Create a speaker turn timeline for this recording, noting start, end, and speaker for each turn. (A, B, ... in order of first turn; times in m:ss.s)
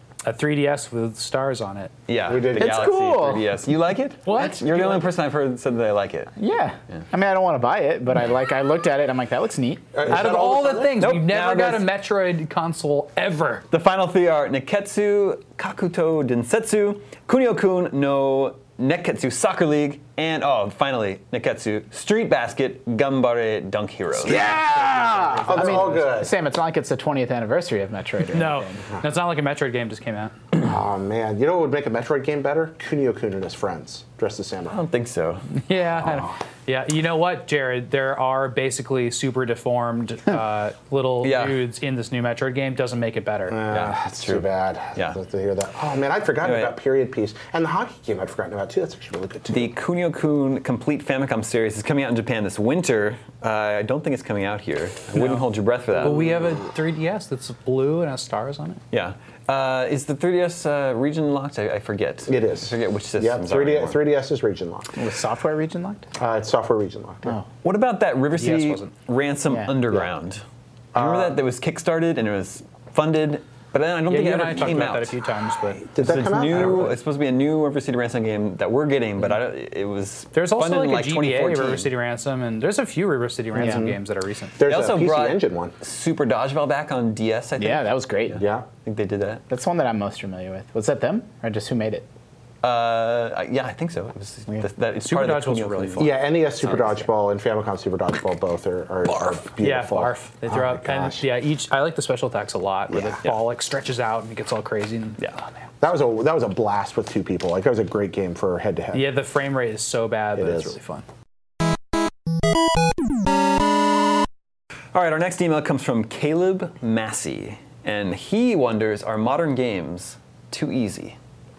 0:00.2-0:01.9 A
0:02.1-0:06.3 B
0:02.3-0:02.9 C
0:02.5-0:03.4 D
0:04.2-0:05.0 A
0:06.4-0:09.9 D
0:09.9-0:10.9 C
0:10.1-0:13.6 A
0:11.0-0:11.8 B
0:13.7-0:24.5 B
0:24.2-0:26.3 C
0:25.5-0:28.8 D
0:25.6-0:25.9 A
0:28.3-0:30.3 A
0:30.6-0:34.8 C
0:34.7-0:35.4 B
0:35.7-0:43.6 A
0:41.2-0:41.6 B
0:43.5-0:49.7 C
0:43.7-0:45.2 B
0:46.4-0:46.7 B
0:49.5-0:56.4 B
0:55.2-0:55.4 A
0:56.0-0:58.8 A
0:58.9-1:04.0 B
1:02.3-1:04.9 C
1:05.0-1:06.0 D
1:06.2-1:07.4 C
1:07.6-1:10.4 B
1:08.4-1:08.9 A
1:09.5-1:09.8 D
1:10.9-1:11.4 C
1:11.0-1:15.1 B
1:14.1-1:15.8 A
1:15.8-1:17.0 C
1:16.0-1:21.9 B
1:20.3-1:24.5 A
1:23.5-1:23.8 D
1:23.5-1:24.0 C
1:24.6-1:25.7 C
1:24.6-1:29.4 B
1:27.6-1:28.4 D
1:28.4-1:28.6 C
1:29.5-1:32.0 D
1:32.6-1:37.0 B
1:35.0-1:36.2 A
1:36.0-1:41.2 C
1:39.6-1:45.6 A
1:42.9-1:43.2 C
1:45.8-1:49.0 C
1:48.9-1:51.0 A
1:50.4-1:50.7 C
1:54.9-2:01.2 B